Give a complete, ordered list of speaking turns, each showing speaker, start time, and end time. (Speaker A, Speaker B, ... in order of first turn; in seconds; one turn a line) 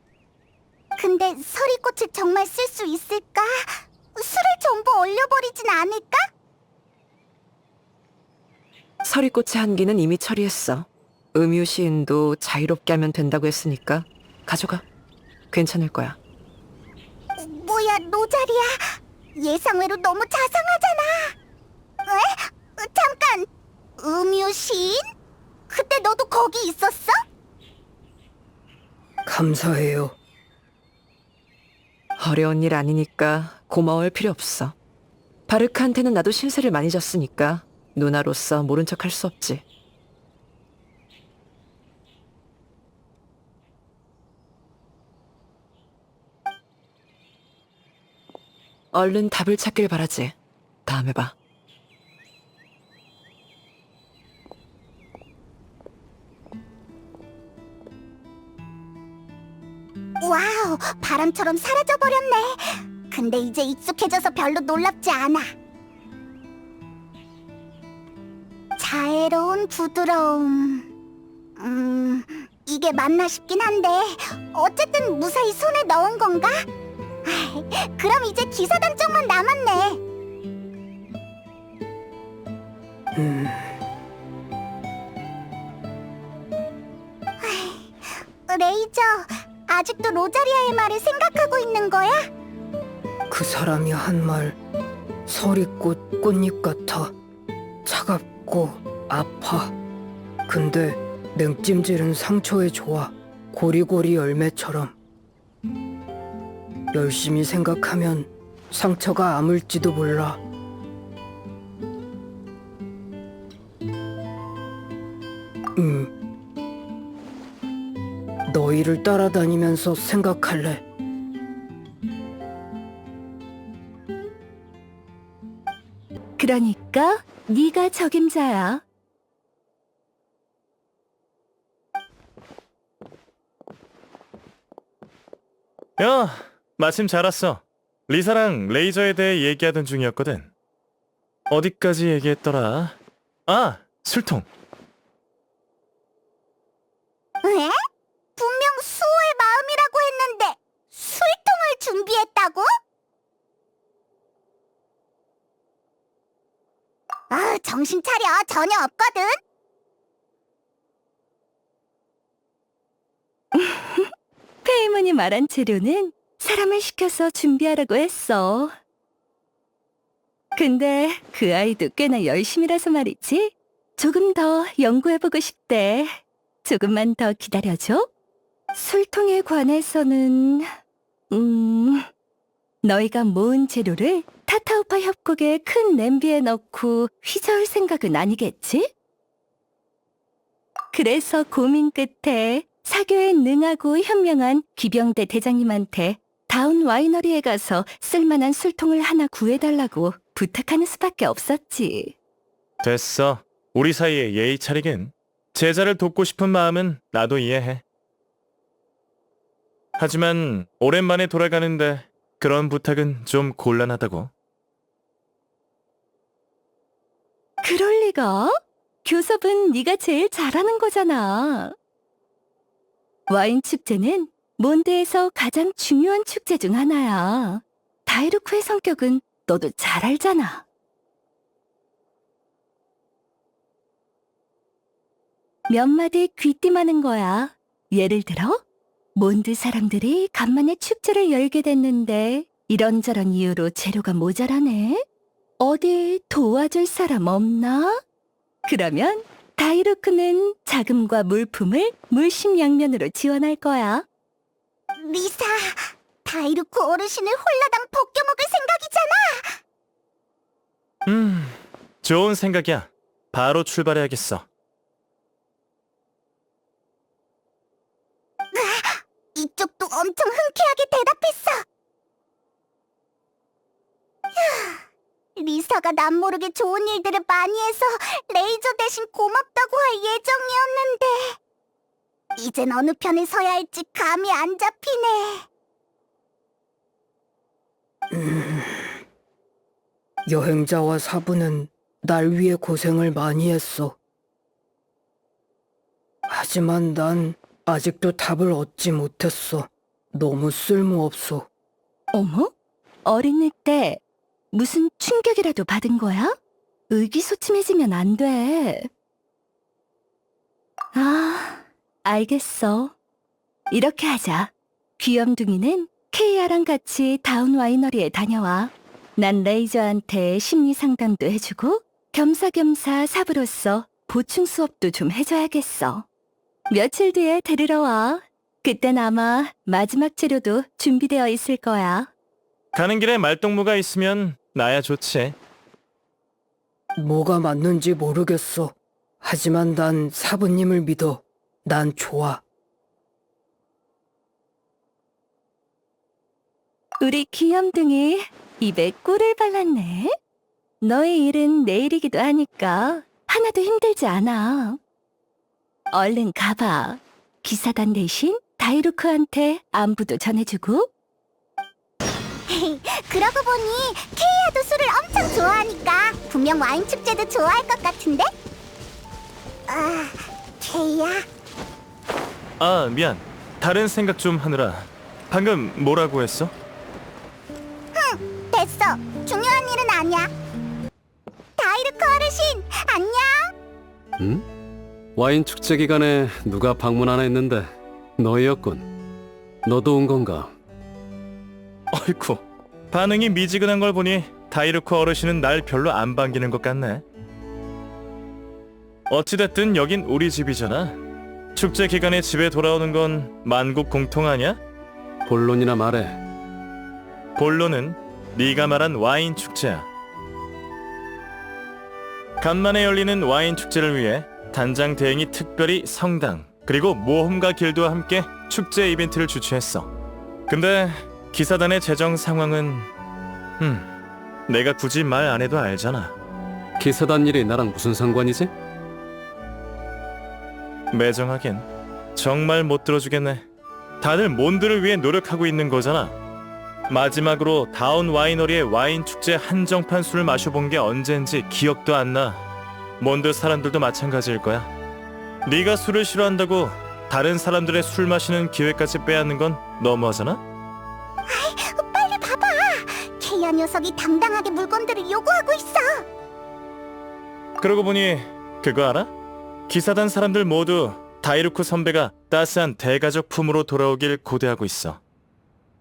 Speaker A: 1.0-6.3
Speaker B: 9.0-14.8
Speaker B: 15.5-16.2
Speaker A: 17.4-21.3
Speaker A: 22.1-23.5
Speaker A: 24.0-25.0
Speaker A: 25.7-27.2
Speaker C: 29.2-30.1
Speaker B: 32.2-34.8
Speaker B: 35.5-39.6
Speaker B: 48.9-50.3
Speaker B: 50.9-51.3
Speaker A: 60.2-65.5
Speaker A: 68.8-70.8
Speaker A: 71.6-76.6
Speaker A: 77.2-80.0
Speaker C: 83.1-83.7
Speaker A: 87.4-92.2
Speaker C: 93.3-94.6
Speaker C: 95.2-97.1
Speaker C: 97.8-99.7
Speaker C: 100.5-105.0
Speaker C: 106.9-110.4
Speaker C: 115.8-116.1
Speaker C: 118.5-120.8
Speaker D: 126.4-128.8
Speaker E: 136.0-140.5
Speaker E: 141.5-142.9
Speaker E: 143.5-144.4
Speaker A: 147.4-147.7
Speaker A: 148.3-152.7
Speaker A: 157.3-159.3
Speaker D: 163.5-164.1
Speaker D: 164.6-168.7
Speaker D: 170.6-178.1
Speaker D: 178.7-180.7
Speaker D: 181.3-182.1
Speaker D: 182.8-188.9
Speaker D: 190.9-202.1
Speaker E: 202.8-207.8
Speaker E: 210.0-214.3
Speaker D: 217.6-221.7
Speaker D: 223.3-230.6
Speaker D: 235.7-238.6
Speaker D: 239.1-245.0
Speaker D: 245.6-248.0
Speaker D: 248.7-254.0
Speaker A: 255.0-259.6
Speaker E: 261.1-264.4
Speaker A: 268.5-271.6
Speaker A: 274.3-274.8
Speaker A: 275.4-281.4
Speaker A: 282.4-285.4
Speaker C: 288.1-289.0
Speaker C: 290.2-293.9
Speaker C: 296.3-301.5
Speaker D: 302.1-302.5
Speaker D: 303.0-304.0
Speaker D: 304.5-306.4
Speaker D: 306.9-308.9
Speaker D: 310.9-312.9
Speaker D: 313.7-326.1
Speaker D: 326.7-332.1
Speaker E: 332.7-335.4
Speaker C: 337.0-342.4
Speaker D: 347.0-350.1
Speaker D: 350.8-354.8
Speaker D: 355.9-360.9
Speaker A: 362.5-368.3
Speaker A: 369.7-371.2
Speaker E: 372.6-376.5
Speaker A: 377.9-380.3
Speaker A: 381.6-383.5
Speaker F: 384.2-384.4
Speaker F: 385.1-388.9
Speaker F: 389.6-390.5
Speaker E: 391.9-397.0
Speaker E: 399.1-401.0
Speaker E: 401.5-404.6
Speaker F: 405.2-406.2
Speaker E: 407.4-409.9
Speaker E: 412.4-419.9
Speaker E: 420.5-422.9
Speaker E: 423.6-423.9
Speaker E: 424.5-426.1
Speaker F: 426.8-428.5
Speaker E: 430.9-433.4
Speaker E: 434.0-436.1
Speaker E: 436.9-442.4
Speaker E: 443.0-444.7
Speaker E: 445.4-450.4
Speaker A: 451.3-456.0
Speaker E: 457.6-459.1
Speaker E: 459.7-465.0